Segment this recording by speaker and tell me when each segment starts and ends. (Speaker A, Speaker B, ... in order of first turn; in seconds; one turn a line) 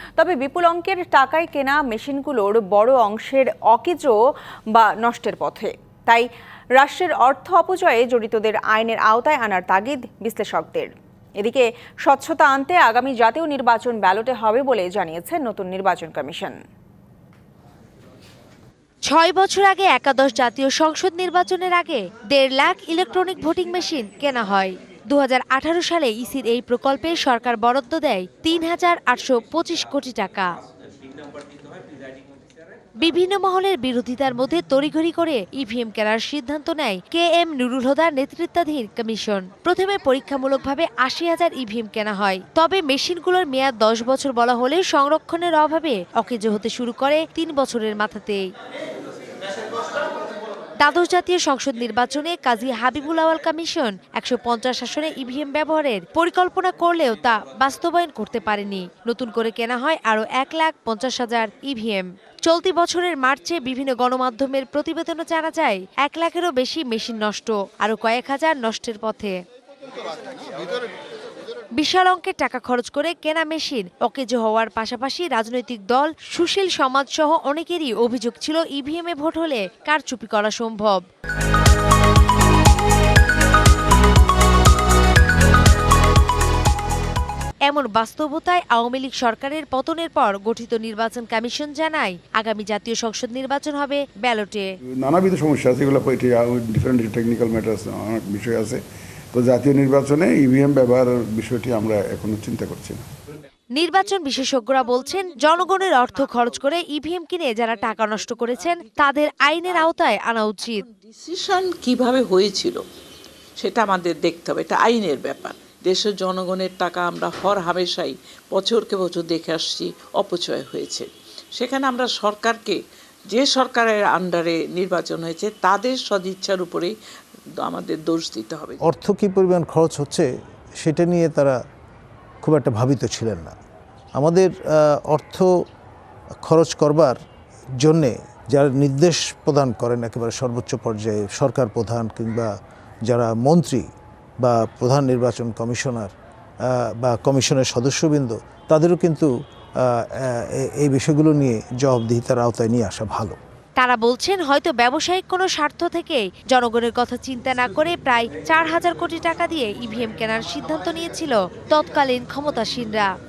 Speaker A: 0.2-4.2
Speaker A: 4.7-16.6
Speaker B: 19.1-30.5
Speaker B: 33.0-48.5
Speaker B: 50.8-69.4
Speaker B: 71.8-81.0
Speaker B: 87.7-94.7
Speaker C: 95.0-98.8
Speaker C: 99.3-103.0
Speaker B: 103.8-110.8
Speaker D: 104.0-106.9
Speaker D: 107.7-112.8
Speaker D: 113.6-122.8
Speaker D: 123.3-126.9
Speaker D: 127.6-128.8
Speaker E: 128.8-131.6
Speaker E: 132.4-133.6
Speaker E: 134.2-135.5
Speaker E: 136.4-137.2
Speaker E: 137.8-142.5
Speaker E: 143.1-143.9
Speaker E: 144.4-146.1
Speaker E: 146.7-149.3
Speaker E: 149.8-153.4
Speaker B: 153.8-163.1